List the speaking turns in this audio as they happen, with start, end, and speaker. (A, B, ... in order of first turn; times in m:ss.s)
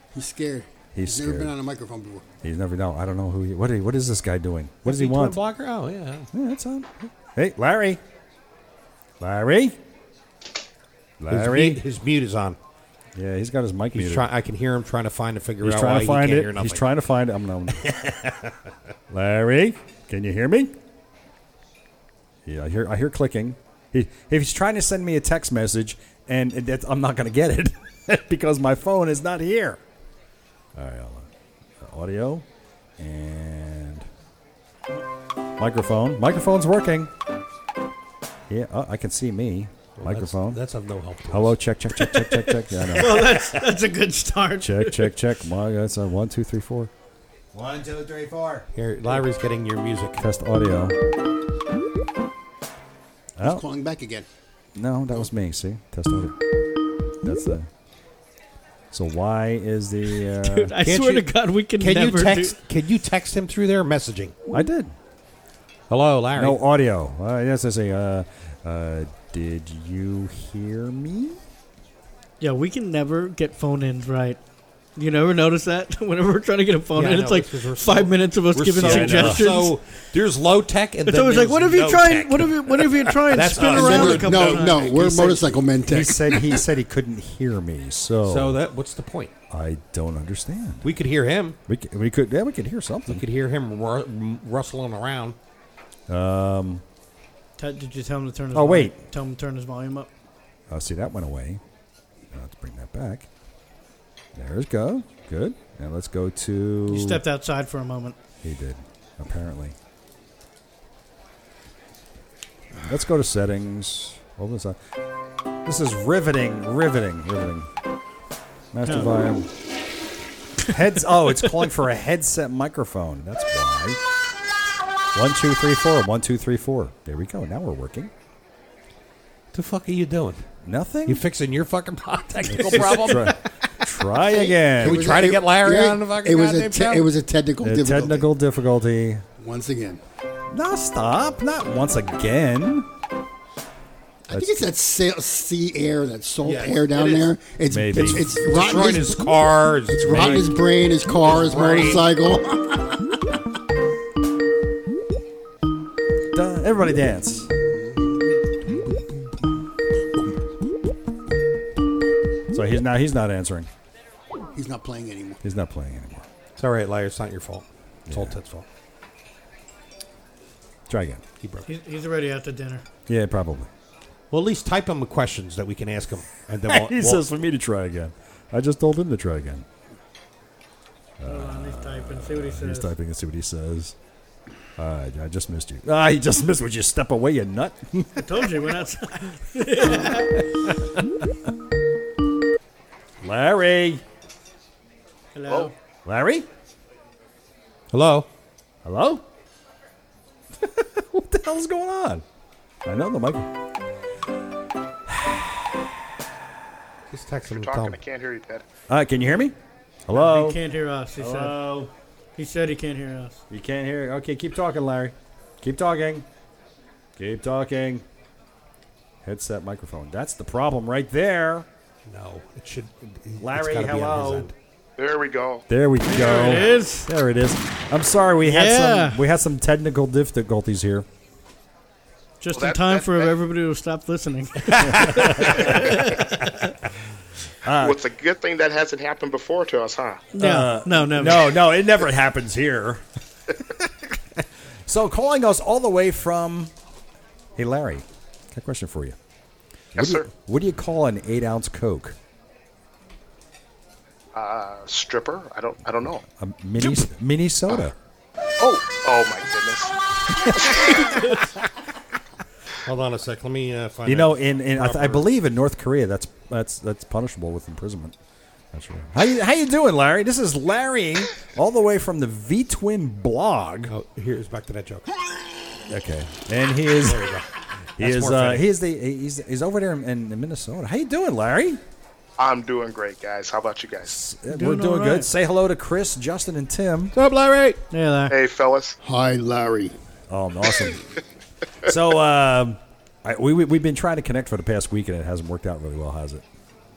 0:00.1-0:02.2 A
0:00.9-0:01.5 B
0:02.4-0:05.4 B
0:04.8-0:06.3 C
0:06.3-0:08.0 B
0:09.2-0:09.8 B
0:11.2-0:11.8 B
0:11.3-0:12.6 C
0:13.1-0:14.2 B
0:13.9-0:16.8 C
0:15.6-0:17.8 B
0:17.8-0:18.5 C
0:19.1-0:20.8 B
0:22.4-0:29.8 B
0:30.7-0:31.3 B
0:31.8-0:32.4 B
0:33.0-0:34.1 B
0:35.6-0:37.1 B
0:38.5-0:40.6 B
0:40.0-0:43.4 C
0:41.3-0:43.4 B
0:42.9-0:45.1 D
0:44.6-0:46.9 B
0:47.5-0:48.7 B
0:48.7-0:50.2 C
0:50.2-0:51.0 B
0:53.4-0:53.6 B
0:53.4-0:54.3 A
0:54.7-0:56.4 B
0:57.2-0:57.7 B
0:58.9-1:00.8 B
1:00.4-1:02.6 D
1:00.8-1:04.4 C
1:04.5-1:04.9 B
1:05.9-1:06.6 C
1:06.4-1:11.4 B
1:12.4-1:14.4 D
1:15.0-1:19.8 D
1:16.9-1:25.4 C
1:18.8-1:19.5 B
1:21.0-1:25.5 D
1:23.6-1:26.6 A
1:25.8-1:28.6 B
1:28.2-1:29.3 C
1:29.5-1:30.9 B
1:30.8-1:31.6 C
1:31.7-1:33.2 B
1:33.1-1:35.4 C
1:36.1-1:36.8 B
1:37.6-1:40.1 D
1:38.5-1:39.0 B
1:40.7-1:41.6 B
1:42.3-1:43.3 B
1:44.3-1:47.2 B
1:46.9-1:48.2 D
1:48.4-1:49.8 B
1:52.8-1:55.0 B
1:55.6-1:57.7 B
1:58.7-1:59.5 B
2:00.6-2:04.0 B
2:05.1-2:08.1 B
2:09.5-2:10.4 C
2:10.6-2:11.2 B
2:11.0-2:13.4 C
2:12.5-2:15.1 B
2:14.7-2:18.3 A
2:14.8-2:17.1 C
2:17.6-2:19.2 B
2:19.4-2:20.0 A
2:20.5-2:22.9 B
2:24.3-2:29.3 A
2:24.3-2:24.7 B
2:26.4-2:27.3 C
2:27.7-2:28.3 B
2:28.0-2:32.1 C
2:29.9-2:33.2 A
2:30.1-2:30.5 B
2:36.3-2:37.5 B
2:37.7-2:38.0 A
2:42.5-2:43.7 B
2:44.5-2:45.4 A
2:45.4-2:46.2 B
2:46.6-2:48.6 C
2:48.1-2:48.4 B
2:50.9-2:51.2 B
2:51.4-2:51.7 C
2:51.6-2:52.8 D
2:53.1-2:53.7 B
2:54.3-2:57.2 C
2:56.6-2:59.6 B
3:01.2-3:03.9 B
3:01.2-3:02.9 D
3:04.8-3:08.6 B
3:08.2-3:10.5 D
3:10.0-3:11.2 B
3:13.2-3:14.0 B
3:15.3-3:15.7 D
3:15.5-3:15.7 E
3:16.0-3:16.4 B
3:17.9-3:18.3 C
3:18.8-3:19.2 B
3:20.6-3:22.2 B
3:22.8-3:23.5 B
3:25.1-3:25.7 B
3:27.1-3:28.0 C
3:27.5-3:28.6 E
3:28.9-3:29.6 B
3:30.1-3:30.6 B
3:30.1-3:31.6 D
3:31.2-3:31.9 B
3:32.4-3:33.4 D
3:33.5-3:36.2 B
3:37.2-3:38.0 B
3:39.2-3:41.7 B
3:42.1-3:44.5 C
3:43.4-3:44.5 B
3:45.0-3:45.6 E
3:45.7-3:51.0 B
3:46.1-3:47.1 D
3:48.4-3:49.2 D
3:52.4-3:56.4 D
3:52.5-3:53.3 E
3:54.7-3:55.5 C
3:54.8-3:56.2 B
3:57.6-3:58.0 B
3:57.8-4:00.3 E
4:00.3-4:01.6 D
4:00.4-4:04.2 B
4:04.9-4:06.7 B
4:07.6-4:09.2 B
4:09.9-4:12.2 B
4:10.0-4:10.3 E
4:14.3-4:16.2 E
4:16.2-4:17.9 B
4:18.6-4:21.2 E
4:22.8-4:25.2 C
4:24.0-4:28.1 B
4:28.7-4:33.9 B
4:33.9-4:35.2 C
4:35.9-4:37.3 B
4:37.0-4:38.6 C
4:38.0-4:41.8 B
4:42.4-4:44.1 E
4:44.0-4:47.1 B
4:44.5-4:45.3 D
4:47.1-4:47.8 C
4:47.9-4:48.3 D
4:48.3-4:49.0 E
4:49.0-4:49.9 A
4:50.3-4:51.0 B
4:51.8-4:56.4 B